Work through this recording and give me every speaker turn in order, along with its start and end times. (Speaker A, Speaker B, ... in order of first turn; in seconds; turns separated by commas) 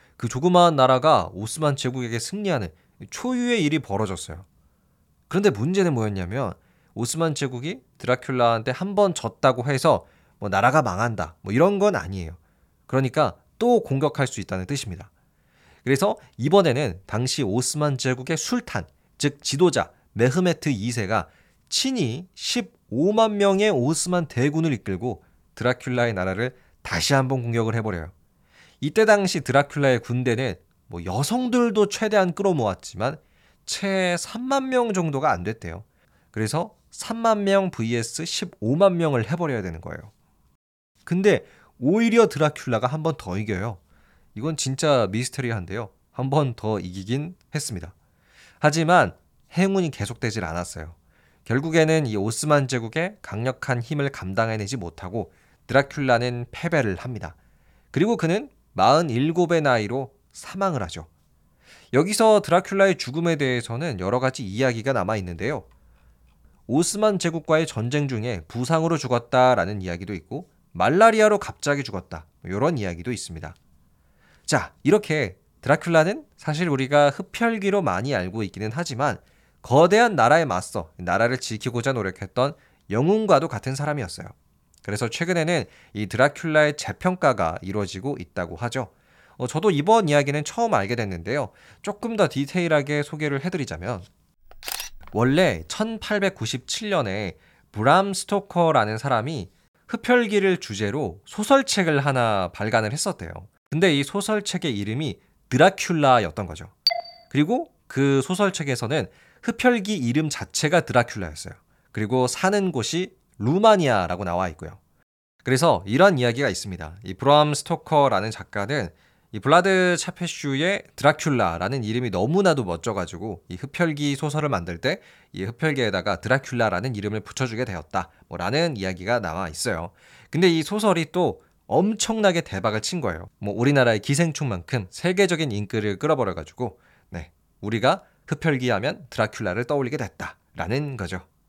Speaker A: 0.2-4.5, Speaker A: 5.3-15.1, Speaker A: 15.8-28.1, Speaker A: 28.8-40.1, Speaker A: 41.0-43.8, Speaker A: 44.4-47.9, Speaker A: 48.6-57.4, Speaker A: 57.9-61.1, Speaker A: 61.9-65.7, Speaker A: 66.7-73.6, Speaker A: 74.5-84.3, Speaker A: 84.8-94.1, Speaker A: 95.1-106.7, Speaker A: 107.3-114.8, Speaker A: 115.4-141.3